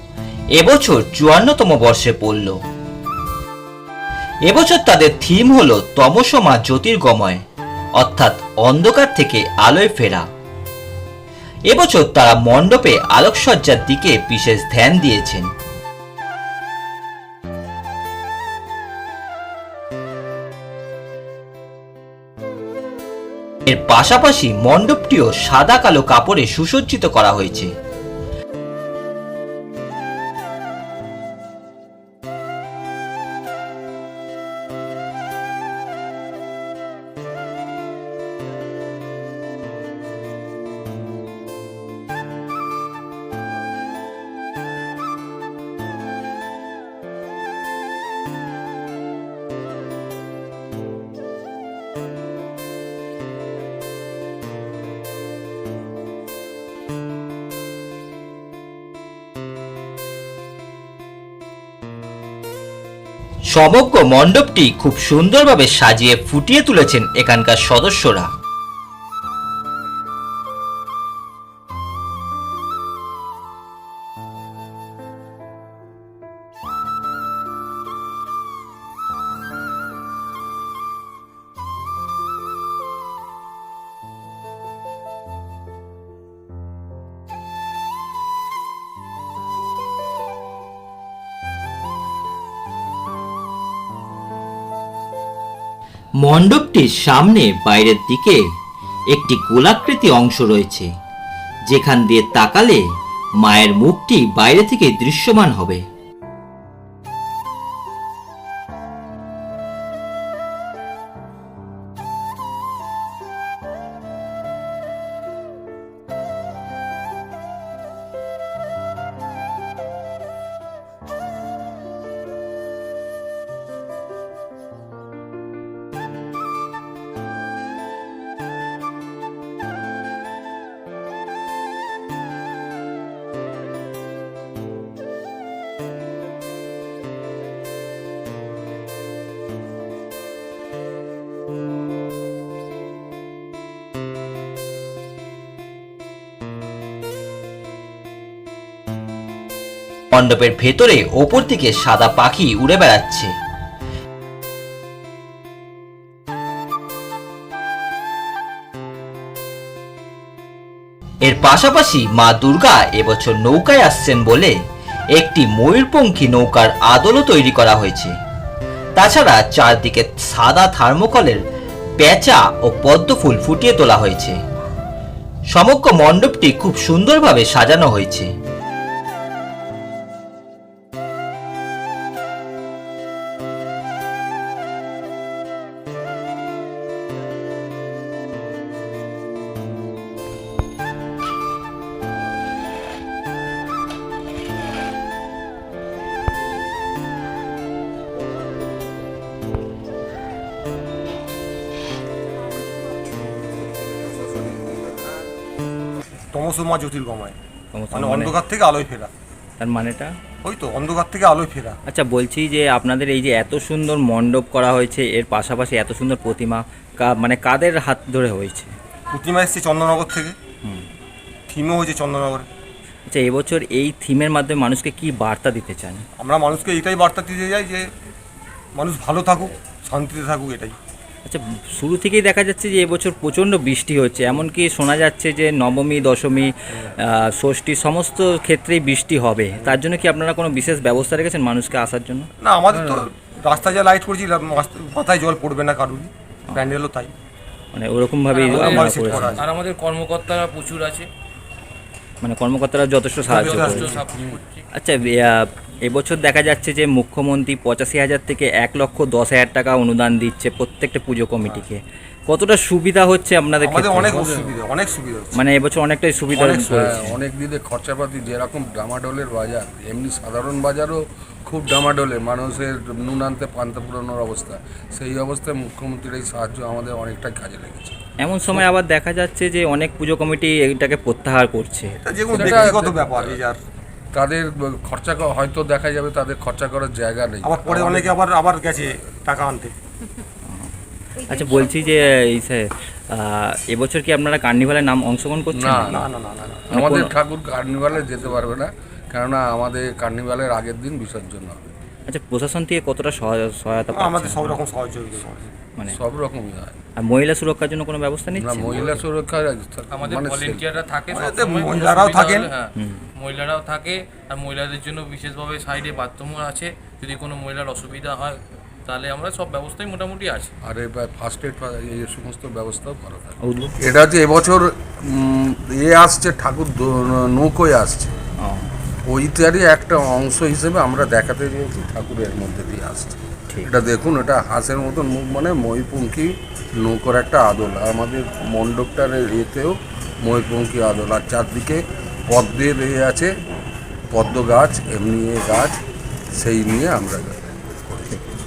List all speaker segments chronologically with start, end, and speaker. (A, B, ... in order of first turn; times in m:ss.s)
0:00.5-0:02.6 A
0:04.4-0:07.4 A
0:08.0-0:10.3 A
0:11.7-0:15.5 A
0:23.7-0:27.7 A
1:03.5-1:08.3 A
1:36.2-1:38.4 A
1:39.1-1:40.9 A
1:41.7-1:42.8 A
1:43.4-1:45.8 A
2:30.1-2:33.3 A
2:41.2-2:44.5 A
2:45.1-2:48.1 A
2:49.0-2:51.4 A
2:52.0-2:54.4 A
2:55.5-2:58.3 A
3:26.3-3:27.4 B
3:27.7-3:28.3 C
3:27.9-3:29.1 B
3:29.6-3:30.1 C
3:30.4-3:31.8 B
3:31.9-3:38.7 C
3:39.1-3:40.4 B
3:41.5-3:42.5 B
3:43.1-3:46.0 C
3:46.2-3:47.9 B
3:48.8-3:50.8 B
3:51.2-3:56.5 C
3:57.0-4:02.3 C
4:02.4-4:07.1 B
4:02.7-4:03.0 D
4:07.7-4:08.4 C
4:08.3-4:11.1 E
4:08.3-4:09.5 B
4:08.5-4:09.4 A
4:12.2-4:13.7 C
4:13.2-4:14.6 E
4:13.2-4:14.0 B
4:13.5-4:13.9 A
4:14.8-4:24.0 C
4:23.6-4:25.4 B
4:23.9-4:24.6 D
4:25.4-4:26.6 C
4:26.3-4:26.9 B
4:26.5-4:38.0 D
4:26.9-4:27.1 A
4:38.2-4:41.9 C
4:42.0-4:43.6 B
4:42.3-4:43.4 D
4:42.4-4:42.7 A
4:44.1-4:48.2 D
4:47.4-4:49.7 B
4:51.3-4:52.0 A
4:52.1-4:55.7 C
4:55.5-5:01.7 D
4:55.7-4:56.0 A
4:55.9-4:56.7 B
5:02.1-5:04.5 C
5:03.9-5:05.4 B
5:05.9-5:06.8 D
5:07.0-5:08.4 C
5:08.3-5:10.6 D
5:08.5-5:09.0 A
5:09.9-5:20.5 E
5:11.1-5:12.5 B
5:20.6-5:28.1 D
5:23.4-5:23.7 C
5:28.4-5:28.7 C
5:29.0-5:43.3 D
5:44.1-5:45.8 D
5:46.4-5:48.2 D